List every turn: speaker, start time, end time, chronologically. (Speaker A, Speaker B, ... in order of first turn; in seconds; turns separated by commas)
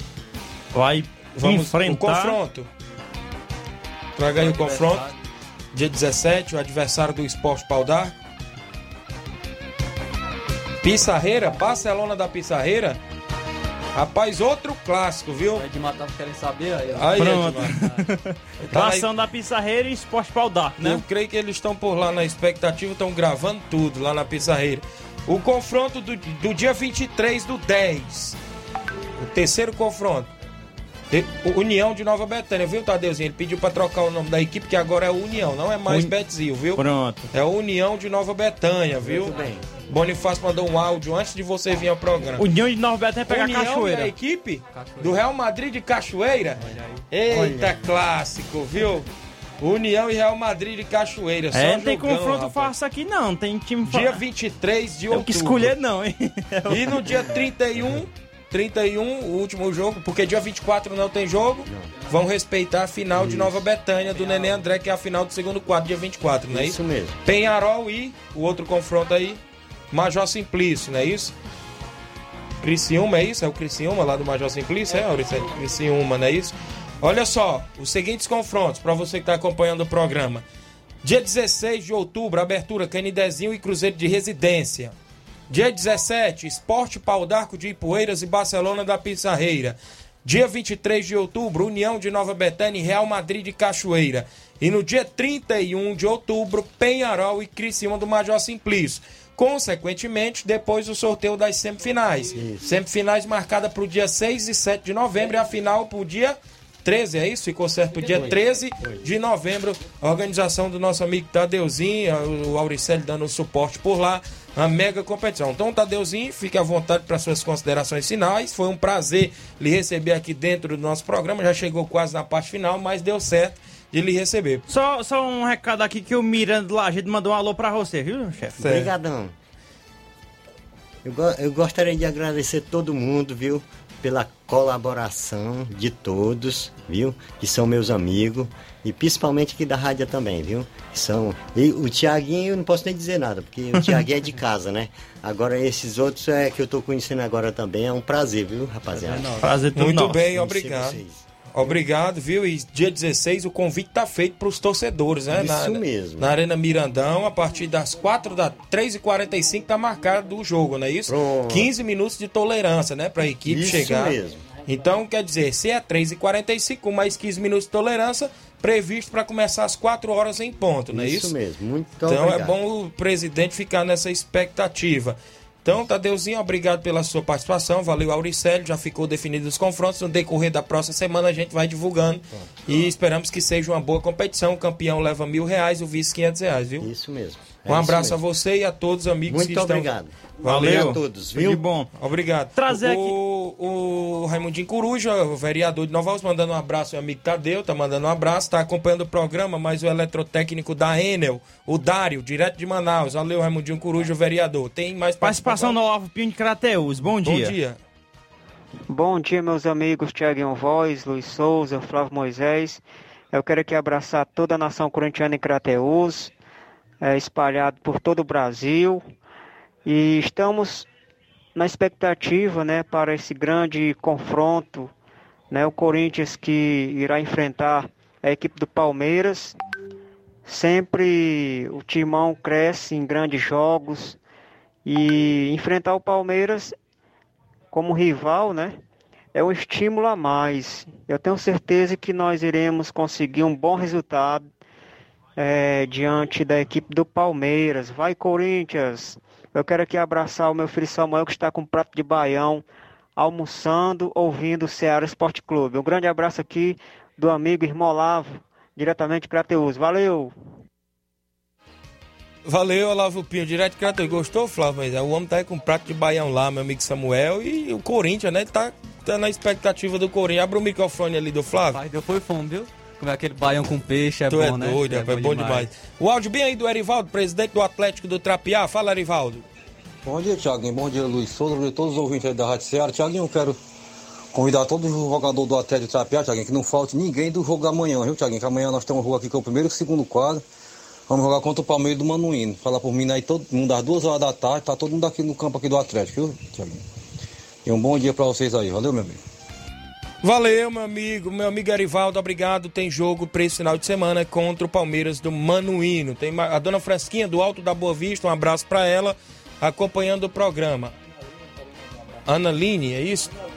Speaker A: 0.7-2.4, Speaker B: 1.4-2.7, Speaker B: 4.2-5.0, Speaker C: 4.3-5.1, Speaker B: 5.7-8.1, Speaker B: 10.8-13.0, Speaker B: 13.9-15.6, Speaker C: 15.5-18.0, Speaker B: 16.9-17.7, Speaker A: 17.2-21.0, Speaker B: 18.6-19.1, Speaker B: 20.8-28.4, Speaker B: 29.2-30.3, Speaker B: 31.1-42.4, Speaker A: 35.9-36.1, Speaker A: 36.8-37.3, Speaker D: 39.0-39.8, Speaker A: 42.4-44.1, Speaker B: 43.3-49.1, Speaker C: 44.7-45.2, Speaker C: 46.6-46.9, Speaker D: 47.3-47.7, Speaker B: 49.6-52.7, Speaker A: 51.5-54.2, Speaker B: 53.9-55.7, Speaker A: 55.1-57.3, Speaker B: 56.7-69.4, Speaker D: 61.6-62.0, Speaker D: 63.1-63.5, Speaker C: 64.2-64.6, Speaker D: 66.5-67.2, Speaker B: 69.9-71.3, Speaker B: 72.6-80.4, Speaker B: 81.0-84.9, Speaker B: 85.5-124.6, Speaker D: 102.3-102.7, Speaker D: 108.1-109.0, Speaker A: 124.7-128.6, Speaker B: 128.6-128.9, Speaker D: 128.6-129.3, Speaker D: 131.0-149.5, Speaker A: 143.8-144.0, Speaker C: 148.9-149.5, Speaker A: 149.4-150.2, Speaker B: 149.7-151.0, Speaker D: 150.2-151.2, Speaker B: 151.5-171.3, Speaker D: 155.3-156.3, Speaker D: 161.1-161.7, Speaker D: 163.4-164.5, Speaker D: 170.9-172.6, Speaker B: 172.0-186.9, Speaker D: 186.8-188.2, Speaker B: 187.7-191.0, Speaker D: 189.3-191.6, Speaker A: 190.4-191.9, Speaker B: 191.9-205.8, Speaker A: 192.6-193.1, Speaker A: 205.2-207.5, Speaker B: 207.2-207.8, Speaker E: 208.9-216.3, Speaker E: 217.0-219.0, Speaker E: 219.8-220.9, Speaker E: 221.5-224.9, Speaker E: 225.5-229.6, Speaker E: 230.4-234.2, Speaker E: 234.8-236.8, Speaker E: 237.7-238.8, Speaker E: 239.3-244.5, Speaker E: 245.4-252.6, Speaker E: 253.2-260.3, Speaker B: 262.4-271.8, Speaker C: 271.7-275.7, Speaker B: 274.3-279.4, Speaker F: 280.0-283.6, Speaker F: 284.3-290.4, Speaker F: 291.1-296.8, Speaker F: 297.6-299.2, Speaker B: 300.2-310.9, Speaker B: 312.2-313.3